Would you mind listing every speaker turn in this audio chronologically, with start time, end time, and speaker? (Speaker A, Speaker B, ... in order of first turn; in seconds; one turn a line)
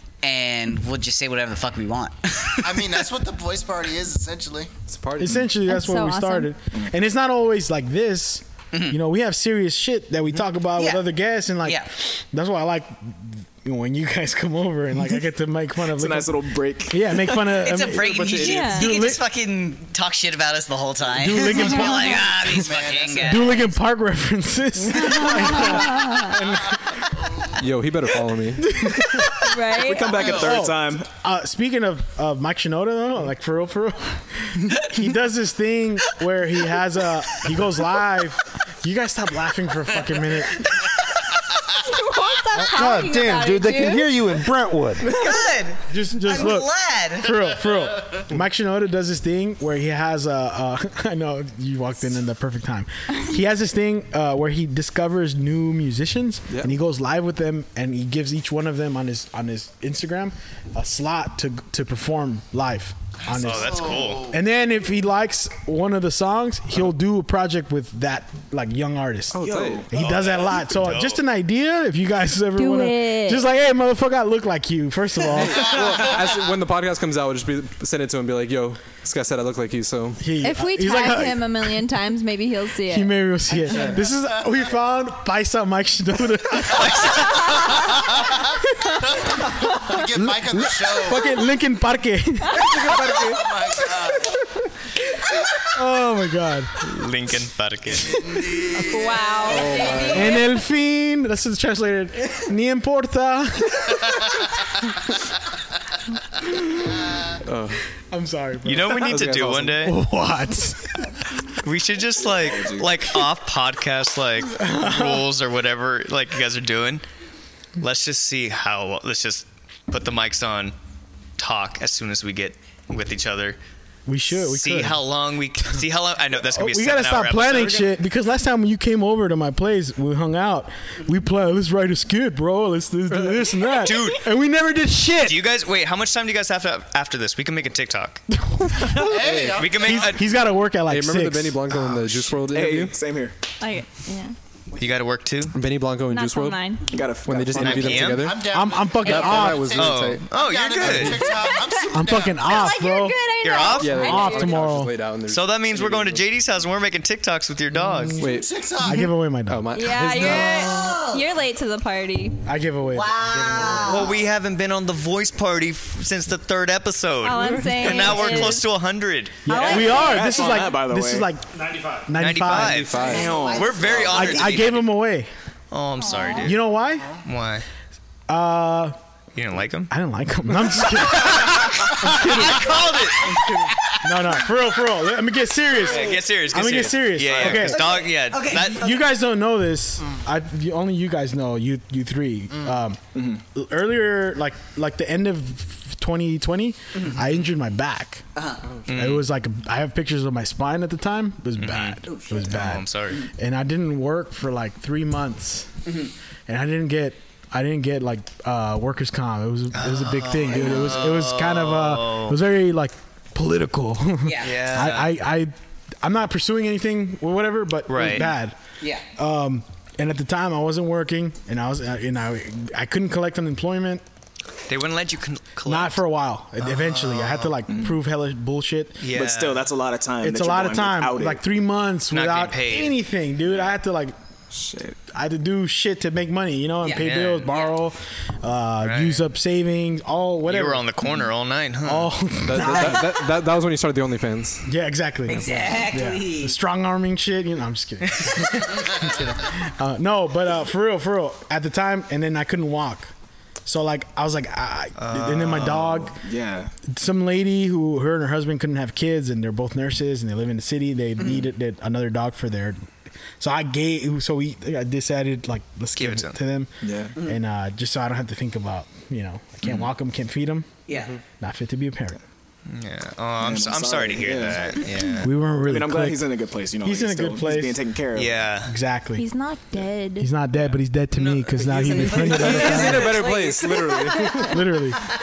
Speaker A: 0.2-3.0
Speaker B: 2.6-4.7
Speaker C: 4.9-5.5
Speaker D: 5.2-19.2
Speaker E: 5.6-6.5
Speaker A: 10.8-11.1
Speaker F: 15.9-18.7
Speaker A: 17.6-23.7
Speaker E: 18.4-18.9
Speaker D: 21.1-22.7
Speaker B: 21.6-23.6
Speaker D: 23.2-27.0
Speaker E: 25.0-26.4
Speaker C: 27.6-28.8
Speaker D: 28.6-29.4
Speaker E: 29.4-30.3
Speaker F: 29.8-31.1
Speaker B: 30.1-30.6
Speaker D: 30.2-40.7
Speaker E: 41.8-44.2
Speaker G: 42.5-45.1
Speaker A: 45.0-47.4
Speaker D: 45.9-76.1
Speaker H: 63.3-64.3
Speaker B: 63.4-64.4
Speaker F: 69.3-69.9
Speaker C: 69.4-69.8
Speaker H: 69.9-71.2
Speaker E: 72.6-73.5
Speaker C: 75.3-80.3
Speaker D: 80.2-81.8
Speaker E: 80.4-83.2
Speaker D: 82.9-87.5
Speaker H: 86.6-87.8
Speaker B: 89.2-91.4
Speaker D: 90.0-92.8
Speaker C: 92.7-93.4
Speaker B: 92.8-94.3
Speaker D: 95.7-96.9
Speaker H: 96.8-98.4
Speaker B: 98.5-98.8
Speaker E: 98.8-100.5
Speaker C: 99.4-100.3
Speaker D: 100.1-104.5
Speaker D: 106.4-107.0
Speaker C: 107.4-107.8
Speaker D: 108.1-111.0
Speaker H: 108.7-110.0
Speaker C: 109.0-109.8
Speaker H: 111.6-117.0
Speaker F: 112.2-112.9
Speaker D: 114.6-115.3
Speaker H: 117.8-120.8
Speaker H: 121.4-123.6
Speaker D: 124.1-125.0
Speaker H: 124.3-127.9
Speaker D: 126.4-135.4
Speaker H: 133.8-134.2
Speaker H: 135.2-138.2
Speaker D: 138.3-141.8
Speaker B: 138.9-140.1
Speaker C: 139.2-139.7
Speaker H: 139.6-140.3
Speaker C: 140.9-143.0
Speaker F: 142.5-143.3
Speaker E: 143.6-144.3
Speaker H: 144.8-145.6
Speaker C: 145.5-146.7
Speaker E: 146.1-147.0
Speaker F: 146.9-148.1
Speaker C: 147.2-148.5
Speaker H: 147.6-148.3
Speaker B: 148.0-152.6
Speaker D: 148.4-149.8
Speaker E: 149.1-149.7
Speaker C: 149.1-150.3
Speaker H: 149.6-151.3
Speaker C: 150.8-151.2
Speaker E: 151.2-154.7
Speaker D: 151.9-153.2
Speaker H: 153.4-154.1
Speaker C: 153.8-156.2
Speaker D: 153.9-154.9
Speaker H: 155.3-158.2
Speaker C: 158.2-158.9
Speaker B: 158.2-159.1
Speaker D: 158.8-159.7
Speaker C: 159.5-160.7
Speaker E: 159.7-162.4
Speaker A: 160.2-161.2
Speaker D: 162.4-164.2
Speaker A: 162.9-164.1
Speaker H: 163.8-170.0
Speaker E: 167.2-168.7
Speaker E: 169.5-170.5
Speaker D: 169.5-172.9
Speaker F: 169.7-171.3
Speaker H: 172.2-175.0
Speaker C: 172.5-173.3
Speaker F: 172.9-174.2
Speaker A: 172.9-174.6
Speaker D: 174.0-175.3
Speaker H: 175.7-176.6
Speaker E: 176.1-176.4
Speaker D: 176.4-177.1
Speaker H: 177.2-177.7
Speaker D: 178.3-179.0
Speaker H: 179.3-179.9
Speaker D: 179.9-183.2
Speaker H: 181.1-183.9
Speaker D: 184.0-187.8
Speaker H: 185.8-189.0
Speaker A: 187.5-188.9
Speaker D: 188.6-198.2
Speaker F: 193.2-193.4
Speaker A: 198.3-198.6
Speaker H: 198.9-199.3
Speaker D: 198.9-205.9
Speaker H: 201.6-202.0
Speaker A: 202.1-202.6
Speaker H: 202.5-203.3
Speaker A: 205.9-206.1
Speaker D: 206.5-218.6
Speaker H: 209.7-212.4
Speaker A: 210.6-211.0
Speaker A: 214.2-214.5
Speaker H: 214.4-215.2
Speaker H: 217.9-218.3
Speaker D: 219.2-224.0
Speaker H: 224.7-226.0
Speaker D: 225.7-229.0
Speaker H: 226.6-227.6
Speaker H: 229.0-229.7
Speaker F: 229.1-231.4
Speaker D: 230.2-234.1
Speaker H: 232.1-233.0
Speaker F: 234.5-235.0
Speaker D: 235.1-240.9
Speaker A: 236.8-237.7
Speaker H: 237.0-237.5
Speaker H: 238.8-239.3
Speaker H: 240.5-242.1
Speaker D: 241.8-243.3
Speaker C: 242.4-244.6
Speaker D: 244.7-253.1
Speaker A: 245.3-246.6
Speaker D: 253.7-256.2
Speaker H: 255.0-255.8
Speaker F: 255.8-256.7
Speaker D: 256.9-262.8
Speaker D: 263.4-270.7
Speaker H: 266.0-266.4
Speaker F: 266.8-267.2
Speaker A: 270.9-271.2
Speaker D: 271.4-272.2
Speaker H: 272.7-275.3
Speaker F: 273.4-274.8
Speaker D: 275.2-276.3
Speaker F: 275.6-278.4
Speaker D: 276.8-277.8
Speaker H: 278.1-278.7
Speaker D: 278.6-279.3
Speaker E: 279.2-280.3
Speaker D: 280.2-283.2
Speaker H: 281.1-282.6
Speaker C: 282.0-284.5
Speaker A: 282.1-284.4
Speaker E: 282.5-284.6
Speaker D: 284.4-285.0